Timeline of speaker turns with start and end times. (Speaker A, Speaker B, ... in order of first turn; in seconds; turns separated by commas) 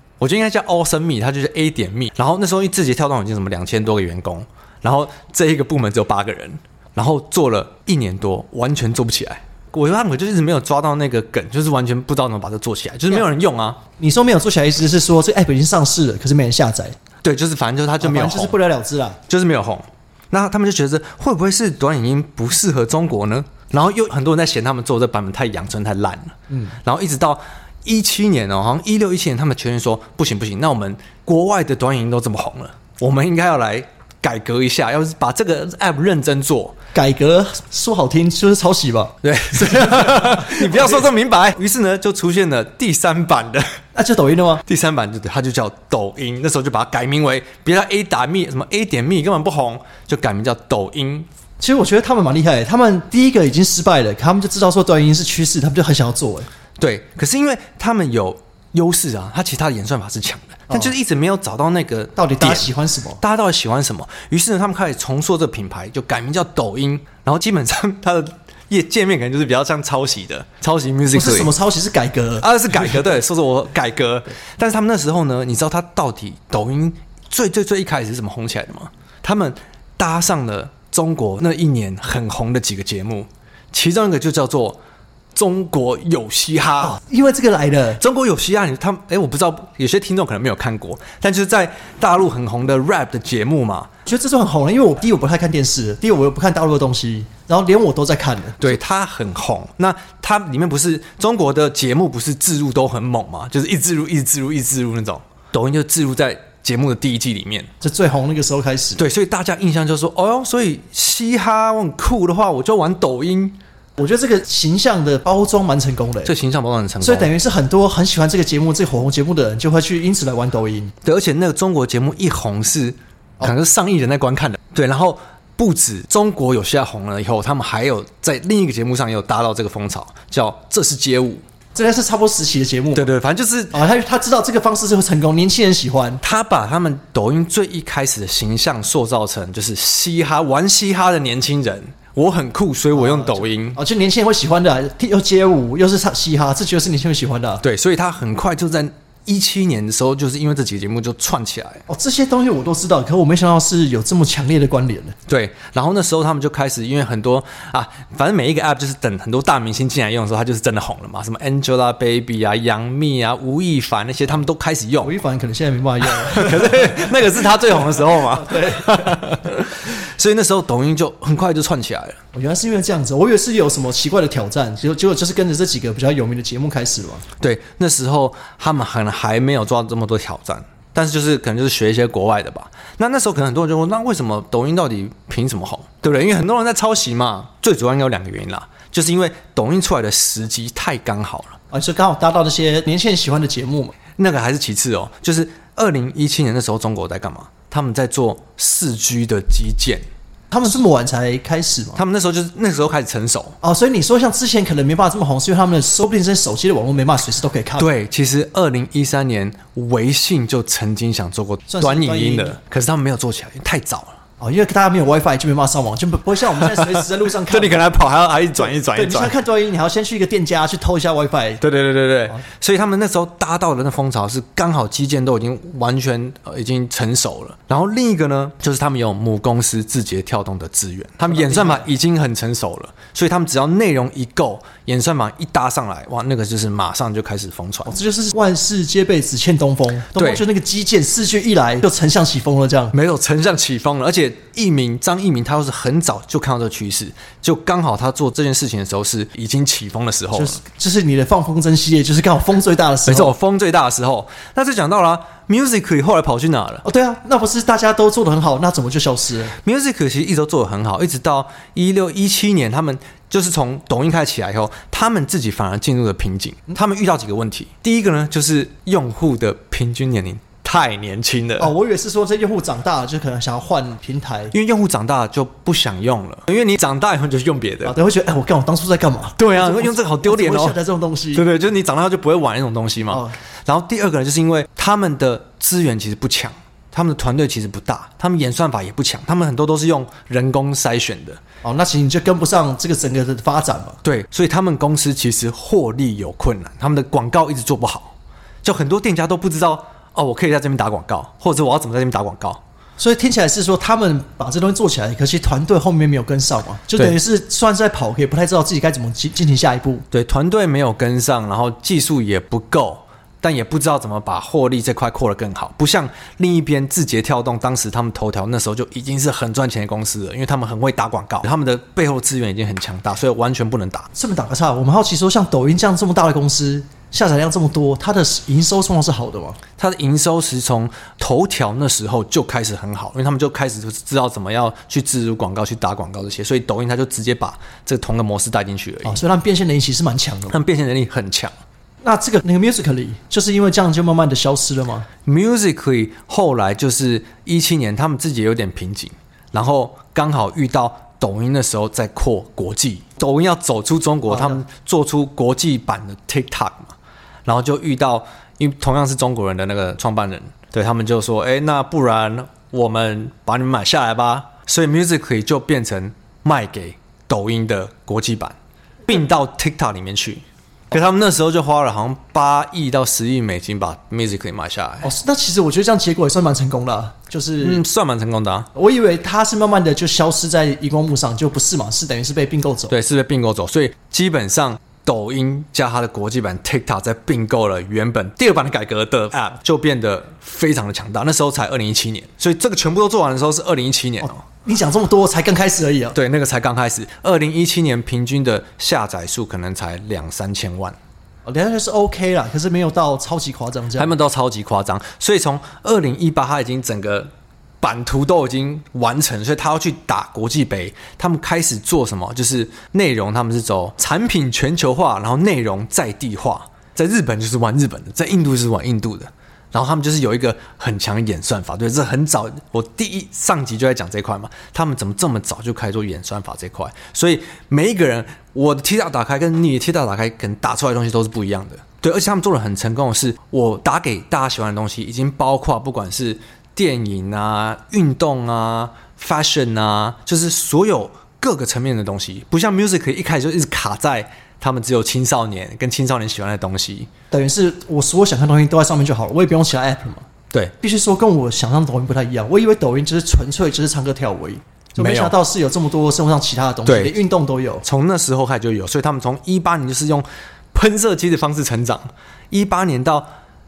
Speaker A: 0.2-13.8, Speaker B: 14.0-16.9, Speaker A: 17.2-18.6, Speaker B: 18.0-19.2, Speaker A: 19.3-36.8, Speaker B: 26.5-26.8, Speaker B: 36.9-41.0, Speaker A: 39.2-43.6, Speaker B: 44.0-44.6, Speaker A: 44.6-51.3, Speaker B: 51.6-56.5, Speaker A: 56.8-71.5, Speaker B: 62.1-63.2, Speaker B: 71.1-72.5, Speaker A: 72.4-84.8, Speaker A: 85.3-87.0, Speaker B: 86.8-88.0, Speaker A: 88.0-93.9, Speaker B: 94.0-98.8, Speaker A: 98.6-107.7, Speaker B: 107.8-109.0, Speaker A: 109.0-113.6, Speaker B: 114.0-116.3, Speaker A: 116.2-117.3, Speaker B: 117.0-120.9, Speaker A: 121.0-131.4, Speaker B: 131.8-133.1, Speaker A: 132.9-133.8, Speaker B: 133.7-136.2, Speaker A: 136.2-143.8, Speaker B: 142.9-147.6, Speaker A: 147.6-151.8, Speaker B: 151.9-155.2, Speaker A: 155.3-165.1, Speaker B: 165.0-169.4, Speaker A: 166.0-172.2, Speaker B: 172.3-177.2, Speaker A: 177.4-191.6, Speaker B: 191.7-194.0, Speaker A: 194.2-200.0, Speaker B: 200.5-202.0, Speaker A: 202.0-203.6, Speaker B: 203.6-207.9, Speaker A: 207.8-214.2, Speaker B: 211.7-212.6, Speaker B: 214.4-217.8, Speaker A: 216.5-219.3, Speaker B: 218.6-221.6, Speaker A: 221.6-237.9, Speaker B: 231.3-231.9, Speaker B: 237.9-242.9, Speaker A: 240.1-240.4, Speaker A: 242.9-250.6, Speaker B: 250.3-253.3, Speaker A: 253.1-256.9, Speaker B: 256.8-259.5, Speaker A: 259.6-271.7, Speaker B: 271.6-274.5, Speaker A: 274.5-277.9, Speaker B: 277.9-281.4, Speaker A: 279.4-280.8, Speaker A: 281.3-291.4, Speaker B: 291.6-294.0, Speaker A: 294.0-302.6, Speaker B: 303.0-310.0, Speaker A: 310.1-324.1, Speaker B: 324.1-329.6, Speaker A: 329.8-339.2, Speaker B: 339.0-340.6, Speaker A: 340.5-341.5, Speaker B: 342.0-345.1, Speaker A: 345.2-356.9, Speaker B: 354.3-354.6, Speaker A: 357.5-375.1, Speaker B: 375.0-377.8, Speaker A: 377.6-378.7, Speaker B: 378.8-382.9, Speaker A: 382.9-394.4, Speaker B: 394.2-396.1, Speaker A: 396.1-401.0, Speaker B: 401.5-404.1, Speaker A: 404.0-407.3, Speaker A: 407.8-447.1, Speaker B: 447.3-450.2, Speaker B: 450.8-457.8, Speaker A: 455.0-455.3, Speaker A: 456.9-457.1, Speaker A: 457.8-463.3